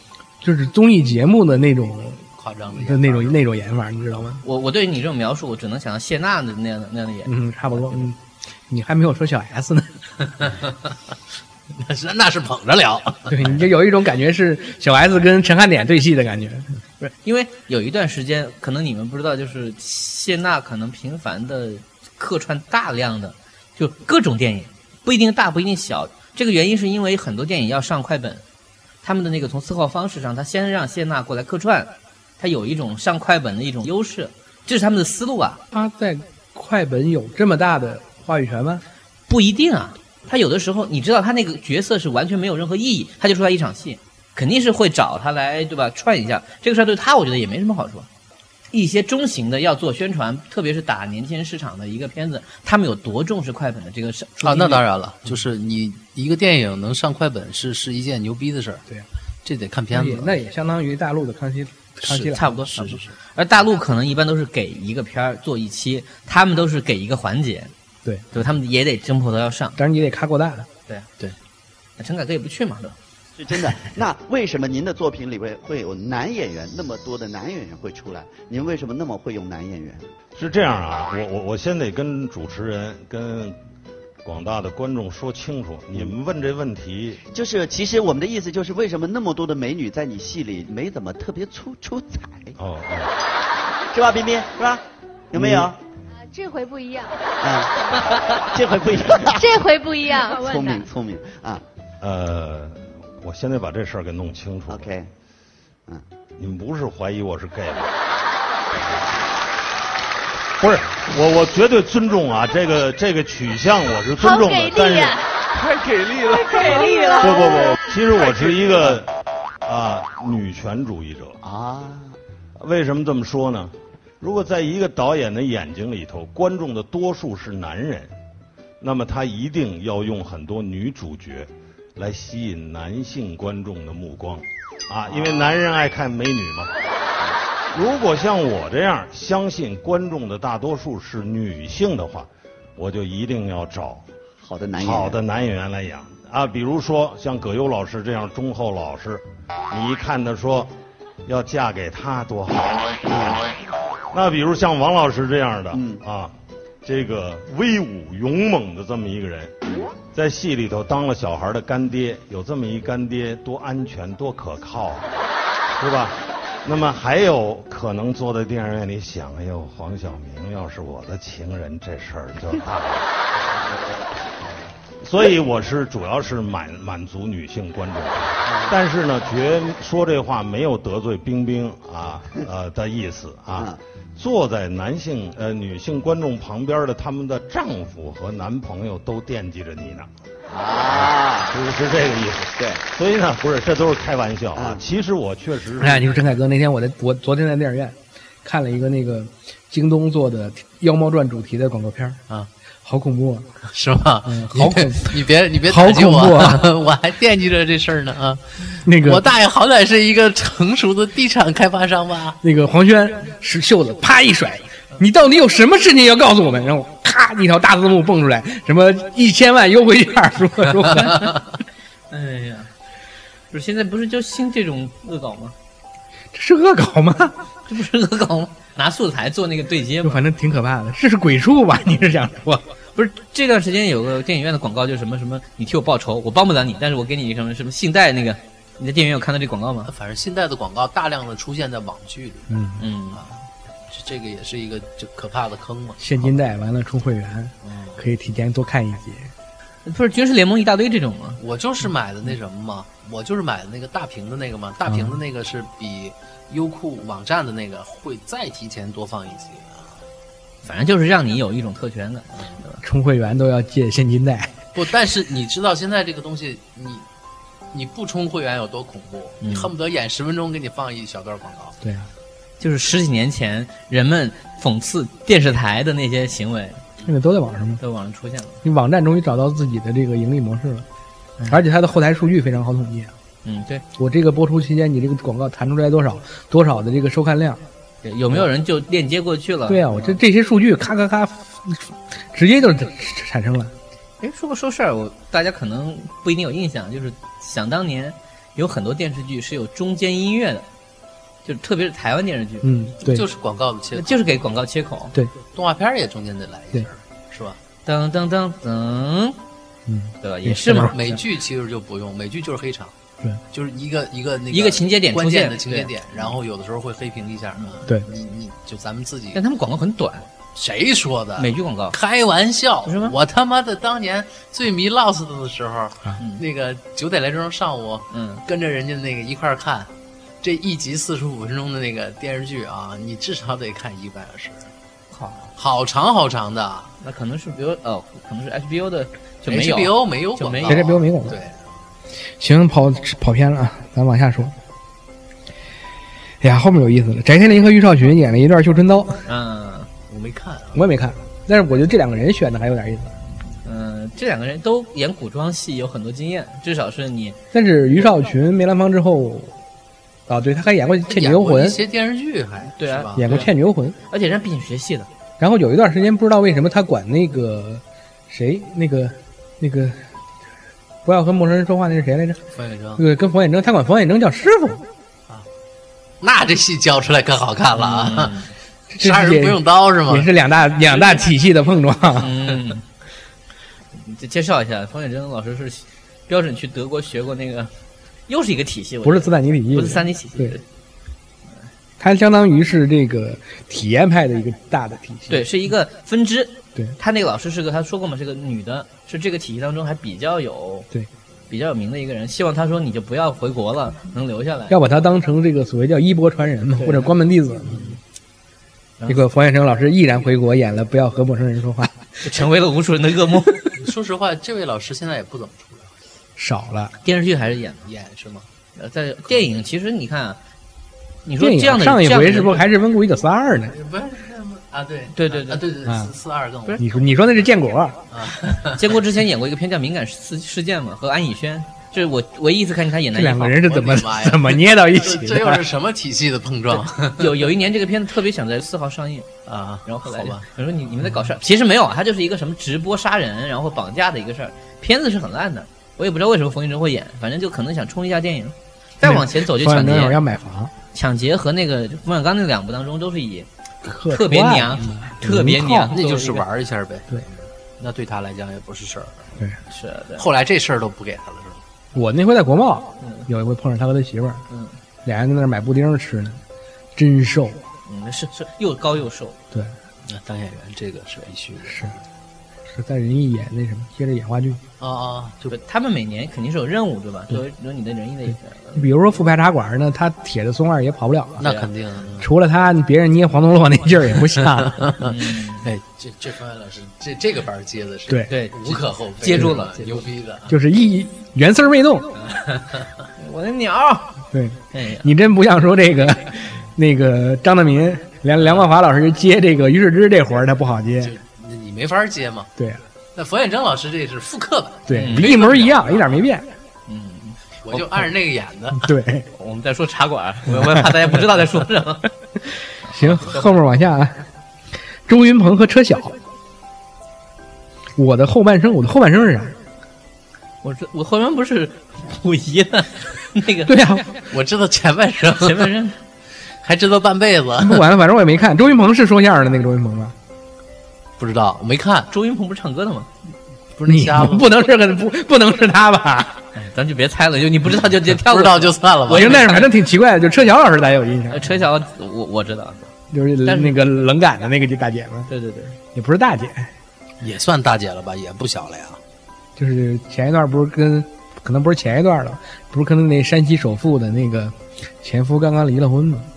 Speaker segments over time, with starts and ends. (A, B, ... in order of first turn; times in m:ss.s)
0:00.4-0:04.4 A
0:02.4-0:03.4 B
0:04.4-0:08.1 C
0:07.3-0:08.2 A
0:08.7-0:10.0 A
0:10.4-0:10.7 B
0:11.7-0:13.5 B
0:13.3-0:16.7 A
0:17.0-0:28.4 C
0:29.0-0:35.6 C
0:35.7-0:38.8 A
0:39.3-0:48.1 C
0:48.7-0:54.8 C
0:54.4-0:58.8 B
0:59.4-1:00.3 B
0:59.9-1:02.4 A
1:02.1-1:07.7 C
1:02.4-1:03.2 B
1:08.3-1:09.8 C
1:09.8-1:10.7 A
1:12.0-1:13.0 C
1:13.4-1:20.1 D
1:20.4-1:23.6 E
1:24.2-1:27.2 E
1:27.3-1:32.6 D
1:32.6-1:33.1 E
1:33.9-1:35.8 D
1:35.4-1:35.7 E
1:36.2-1:37.4 F
1:37.4-1:39.6 D
1:39.4-1:40.9 F
1:40.3-1:41.6 D
1:42.0-1:44.9 E
1:44.7-1:45.1 D
1:46.4-1:47.9 E
1:50.6-1:55.2 E
1:54.2-1:55.3 F
1:56.2-1:57.9 F
1:57.2-1:59.1 E
1:59.6-2:01.4 E
2:01.4-2:02.2 D
2:02.6-2:08.1 E
2:08.8-2:16.7 E
2:15.1-2:15.6 D
2:17.7-2:24.0 E
2:24.4-2:25.2 D
2:24.8-2:30.7 E
2:31.3-2:33.4 E
2:33.1-2:33.5 D
2:34.1-2:36.3 E
2:35.7-2:36.0 D
2:36.8-2:39.5 E
2:40.1-2:45.1 E
2:45.8-2:53.1 E
2:55.0-3:10.1 E
2:58.5-2:58.8 D
3:10.5-3:11.6 D
3:10.9-3:16.2 E
3:12.5-3:12.8 D
3:14.6-3:14.8 D
3:15.8-3:22.2 A
3:22.8-3:23.5 A
3:23.7-3:32.4 B
3:24.3-3:26.7 A
3:28.8-3:29.2 A
3:32.4-3:41.3 A
3:40.8-3:41.3 C
3:42.1-3:42.7 C
3:43.5-3:45.6 C
3:46.3-3:47.4 A
3:47.7-3:50.2 C
3:50.0-3:52.6 A
3:53.0-3:59.9 C
3:59.9-4:02.5 B
4:02.5-4:02.8 A
4:02.8-4:03.2 C
4:03.9-4:06.3 B
4:06.0-4:09.3 A
4:07.6-4:08.0 B
4:09.8-4:11.4 C
4:11.4-4:20.0 B
4:20.6-4:22.8 C
4:22.8-4:24.6 A
4:24.8-4:27.0 B
4:27.7-4:31.8 B
4:29.4-4:29.7 C
4:31.8-4:32.1 A
4:32.6-4:36.8 C
4:37.1-4:37.8 A
4:37.8-4:38.6 C
4:38.6-4:40.9 A
4:41.5-4:43.1 A
4:43.4-4:43.8 C
4:44.0-4:47.6 A
4:48.0-4:50.2 C
4:49.7-4:53.7 A
4:54.2-5:00.7 C
5:01.4-5:02.7 C
5:02.6-5:03.2 A
5:03.0-5:04.3 B
5:04.0-5:05.2 C
5:05.5-5:07.6 B
5:07.8-5:09.4 C
5:09.9-5:11.0 A
5:10.2-5:11.0 C
5:10.9-5:12.9 B
5:13.5-5:19.4 B
5:14.5-5:15.9 C
5:19.4-5:20.3 C
5:20.6-5:29.9 B
5:21.4-5:22.0 C
5:22.9-5:23.2 C
5:26.2-5:26.4 C
5:28.1-5:28.4 C
5:30.4-5:34.7 B
5:35.1-5:35.5 C
5:35.6-5:36.9 B
5:37.0-5:40.9 C
5:39.5-5:41.7 B
5:40.7-5:41.4 A
5:42.4-5:44.5 A
5:46.4-5:49.3 A
5:49.3-5:49.9 C
5:50.1-5:50.9 B
5:50.7-5:53.2 A
5:53.6-5:57.4 C
5:57.5-5:59.6 A
6:00.3-6:01.8 A
6:01.1-6:03.4 B
6:02.8-6:03.5 C
6:03.2-6:04.0 A
6:04.1-6:05.1 C
6:05.4-6:10.0 A
6:11.0-6:12.4 A
6:12.6-6:13.0 B
6:13.0-6:14.8 A
6:16.2-6:18.4 B
6:17.8-6:18.5 C
6:18.9-6:22.4 A
6:19.0-6:20.3 B
6:22.2-6:22.8 C
6:24.0-6:27.7 C
6:28.3-6:30.6 C
6:29.0-6:30.6 A
6:32.0-6:35.5 A
6:35.3-6:40.9 C
6:41.5-6:44.8 C
6:44.7-6:47.8 A
6:46.8-6:47.1 C
6:49.1-6:52.0 A
6:52.2-6:53.8 C
6:53.8-6:55.9 B
6:56.4-6:56.9 A
6:57.0-6:57.8 C
6:57.8-6:58.5 B
6:58.8-7:00.4 C
7:01.2-7:02.6 C
7:01.4-7:03.8 A
7:03.7-7:07.0 B
7:05.2-7:05.6 C
7:05.9-7:06.1 A
7:06.8-7:08.0 A
7:08.1-7:08.8 B
7:08.8-7:13.6 C
7:13.1-7:15.6 A
7:13.6-7:17.4 B
7:17.1-7:19.3 C
7:19.5-7:20.5 B
7:19.8-7:30.2 C
7:29.0-7:30.7 A
7:30.9-7:33.5 C
7:33.8-7:35.9 A
7:34.1-7:36.4 C
7:35.9-7:39.3 B
7:39.7-7:40.3 C
7:40.2-7:41.6 B
7:41.9-7:44.4 A
7:43.0-7:43.3 C
7:44.5-7:44.8 C
7:45.0-7:46.4 A
7:47.0-7:47.6 A
7:47.9-7:49.4 C
7:50.0-7:52.0 B
7:51.7-7:51.9 A
7:52.7-7:54.6 A
7:54.8-7:55.6 B
7:55.5-7:58.9 C
7:58.8-8:01.4 A
8:01.4-8:01.7 C
8:01.4-8:02.3 B
8:02.2-8:04.9 A
8:04.3-8:10.6 B
8:05.0-8:05.7 C
8:08.3-8:10.1 C
8:10.5-8:12.2 A
8:13.2-8:14.2 C
8:14.3-8:21.2 A
8:14.7-8:15.0 C
8:21.0-8:22.5 B
8:23.2-8:26.2 B
8:24.9-8:26.5 A
8:24.9-8:25.6 C
8:26.9-8:27.8 C
8:27.6-8:28.9 B
8:28.7-8:29.3 A
8:29.3-8:32.1 C
8:30.5-8:31.1 A
8:32.9-8:33.5 C
8:32.9-8:34.2 A
8:35.1-8:36.2 A
8:38.0-8:39.6 A
8:40.6-8:43.8 C
8:43.6-8:44.1 A
8:44.3-8:45.8 B
8:45.4-8:46.0 C
8:46.6-8:47.9 B
8:47.6-8:50.2 A
8:51.2-8:52.1 B
8:52.1-8:53.1 C
8:53.8-8:54.5 B
8:53.9-8:56.4 A
8:56.6-8:59.7 C
8:58.1-8:59.4 B
8:59.1-9:01.5 A
9:01.3-9:02.9 C
9:03.1-9:05.3 A
9:03.4-9:03.8 C
9:05.3-9:05.8 C
9:05.9-9:06.7 A
9:07.2-9:09.0 B
9:09.6-9:16.3 A